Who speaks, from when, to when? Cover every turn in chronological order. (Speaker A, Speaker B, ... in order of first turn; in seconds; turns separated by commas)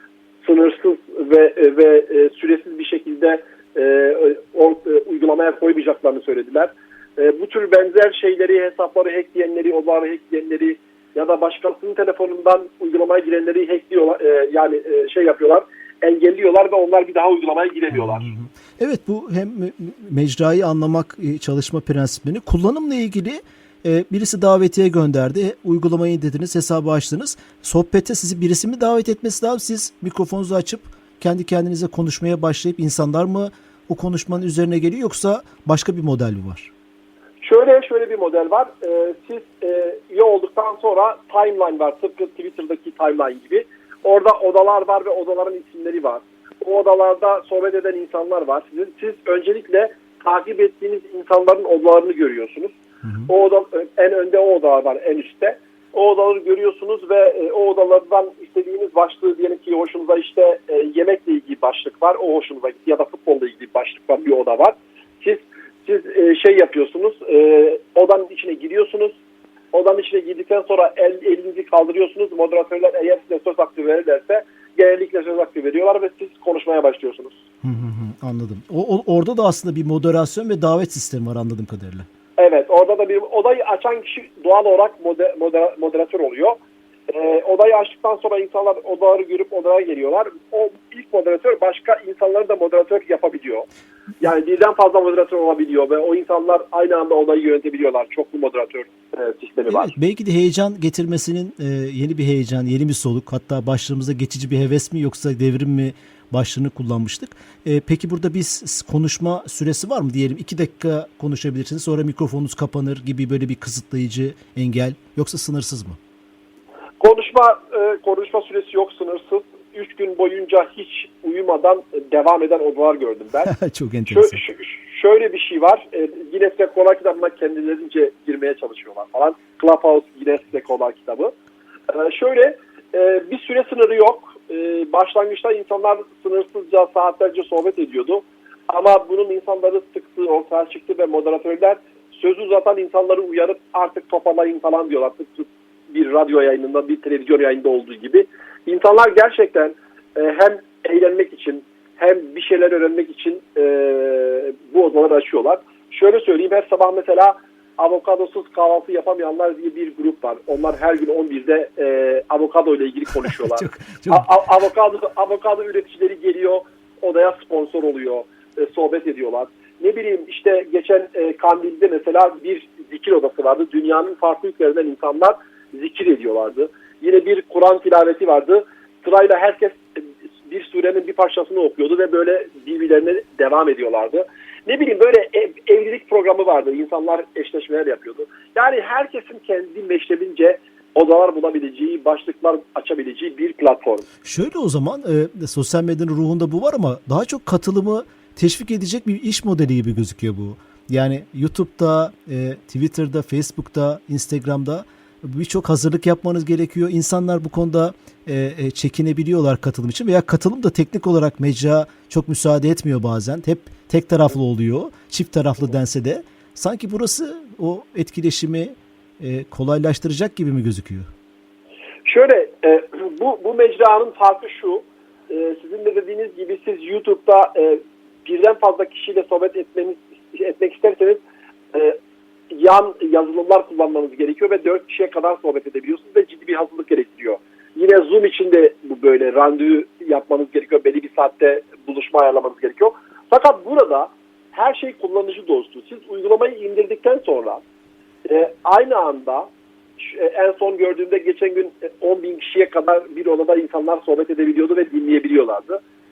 Speaker A: 0.4-18.3, Speaker B: 18.1-36.7, Speaker A: 37.4-52.7, Speaker A: 53.2-69.2, Speaker A: 69.7-77.4, Speaker B: 77.6-82.1, Speaker A: 82.4-86.6, Speaker A: 87.1-93.7, Speaker A: 94.2-100.0, Speaker B: 99.7-116.0, Speaker A: 117.0-123.5, Speaker B: 123.5-124.4, Speaker A: 124.1-131.3, Speaker A: 131.9-194.1, Speaker B: 163.3-164.3, Speaker B: 194.2-221.1, Speaker A: 222.0-231.2, Speaker A: 232.5-247.6, Speaker A: 248.2-249.5, Speaker A: 250.0-255.8